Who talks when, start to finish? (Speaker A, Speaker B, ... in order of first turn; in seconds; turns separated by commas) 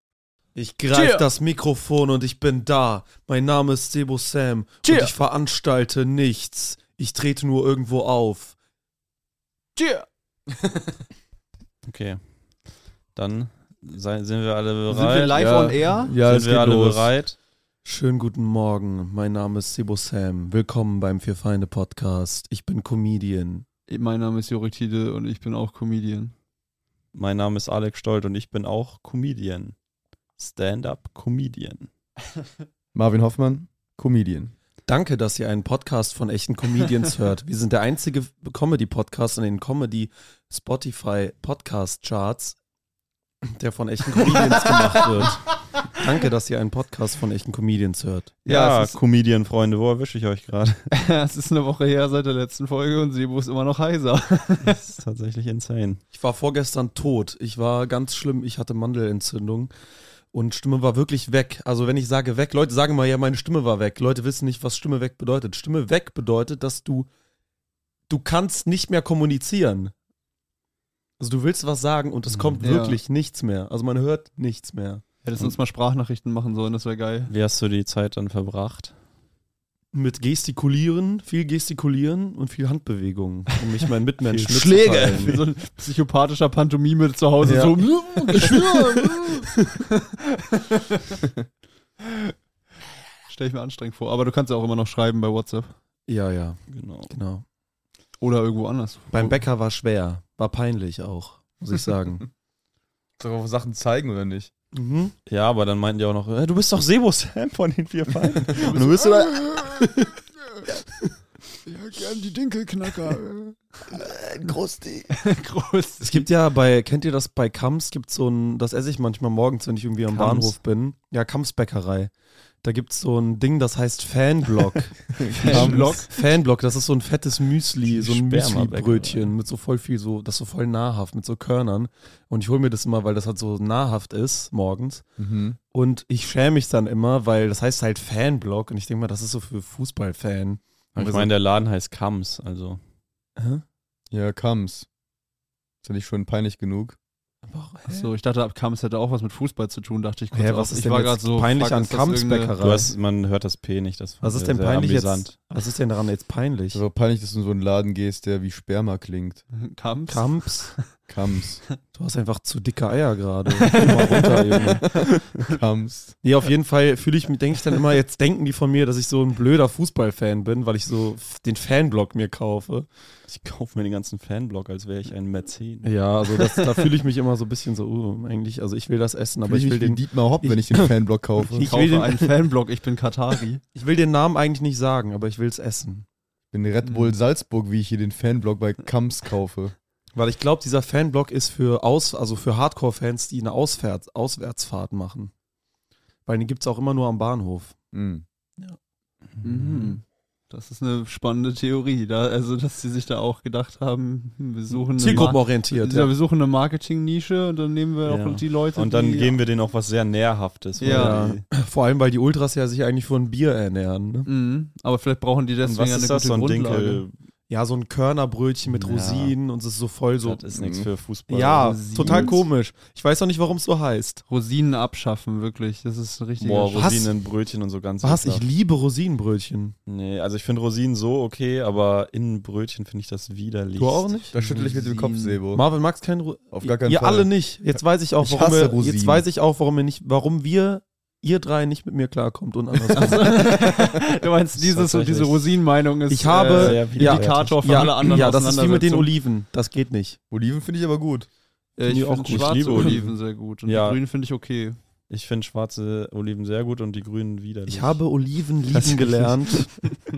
Speaker A: 0.5-8.5, Speaker B: 0.9-1.2, Speaker B: 4.8-5.1, Speaker B: 9.8-10.0, Speaker C: 11.8-12.2, Speaker C: 13.2-17.3, Speaker B: 14.9-16.1, Speaker D: 15.3-17.1, Speaker A: 17.8-23.6, Speaker B: 23.9-26.3, Speaker C: 27.1-29.7, Speaker C: 30.4-31.9, Speaker D: 32.9-34.5, Speaker A: 34.9-42.6, Speaker A: 43.5-48.4, Speaker C: 45.0-45.3, Speaker B: 48.5-49.0, Speaker C: 48.5-50.8, Speaker B: 50.9-54.8, Speaker C: 54.6-56.0, Speaker A: 56.1-59.7, Speaker A: 60.3-67.1, Speaker A: 68.1-69.9, Speaker A: 71.2-75.0, Speaker C: 72.3-72.6, Speaker B: 72.6-73.0, Speaker B: 75.2-77.3, Speaker C: 77.3-78.9, Speaker A: 79.9-85.4, Speaker B: 84.6-91.2, Speaker A: 87.4-89.2, Speaker B: 93.3-95.7, Speaker A: 96.1-97.4, Speaker C: 96.7-97.1, Speaker B: 98.2-99.3, Speaker A: 99.1-102.3, Speaker D: 103.2-104.5, Speaker A: 104.7-105.1, Speaker C: 105.2-109.9, Speaker B: 108.6-109.3, Speaker B: 111.7-113.5, Speaker D: 113.9-115.1, Speaker B: 115.1-116.2, Speaker A: 116.0-122.1, Speaker B: 120.1-120.5, Speaker A: 122.6-135.0, Speaker D: 125.2-126.0, Speaker B: 125.3-126.1, Speaker C: 125.5-125.8, Speaker C: 127.8-129.3, Speaker D: 135.2-135.6, Speaker A: 135.7-141.3, Speaker C: 140.9-142.8, Speaker A: 143.4-143.6, Speaker D: 144.1-144.9, Speaker D: 145.8-147.0, Speaker A: 147.4-148.1, Speaker B: 147.9-152.5, Speaker A: 150.3-152.9, Speaker C: 152.6-155.3, Speaker A: 154.2-156.8, Speaker D: 156.7-159.4, Speaker B: 159.7-160.8, Speaker A: 160.1-160.7, Speaker D: 161.1-161.6, Speaker A: 161.9-164.8, Speaker B: 163.6-164.6, Speaker C: 163.8-165.0, Speaker D: 165.4-166.1, Speaker A: 166.2-172.9, Speaker C: 173.3-175.9, Speaker A: 175.8-182.3, Speaker D: 179.4-181.7, Speaker B: 181.6-183.6, Speaker A: 183.7-186.0, Speaker D: 186.5-189.7, Speaker B: 186.8-187.1, Speaker A: 190.2-195.3, Speaker A: 196.2-197.7, Speaker D: 197.9-198.2, Speaker C: 199.4-200.0, Speaker B: 199.4-209.3, Speaker A: 204.9-206.1, Speaker C: 208.1-211.4, Speaker B: 210.8-211.2, Speaker A: 210.8-214.3, Speaker B: 214.2-217.0, Speaker C: 215.6-217.1, Speaker A: 217.5-220.4, Speaker C: 218.7-219.3, Speaker C: 220.2-222.3, Speaker D: 220.5-220.9, Speaker A: 221.3-224.2, Speaker B: 221.6-222.4, Speaker B: 224.3-227.0, Speaker C: 226.4-228.4, Speaker A: 228.0-229.7, Speaker C: 229.9-234.2, Speaker A: 233.8-234.4, Speaker D: 234.3-235.6, Speaker B: 234.4-235.4, Speaker A: 235.5-243.5, Speaker D: 236.5-239.2, Speaker B: 242.9-249.1, Speaker C: 244.6-245.6, Speaker A: 246.1-250.2, Speaker C: 246.5-248.3, Speaker D: 250.3-251.3, Speaker B: 251.8-254.8, Speaker A: 251.8-252.9, Speaker C: 252.3-254.0, Speaker C: 255.1-258.0, Speaker A: 257.7-259.7, Speaker C: 258.7-259.3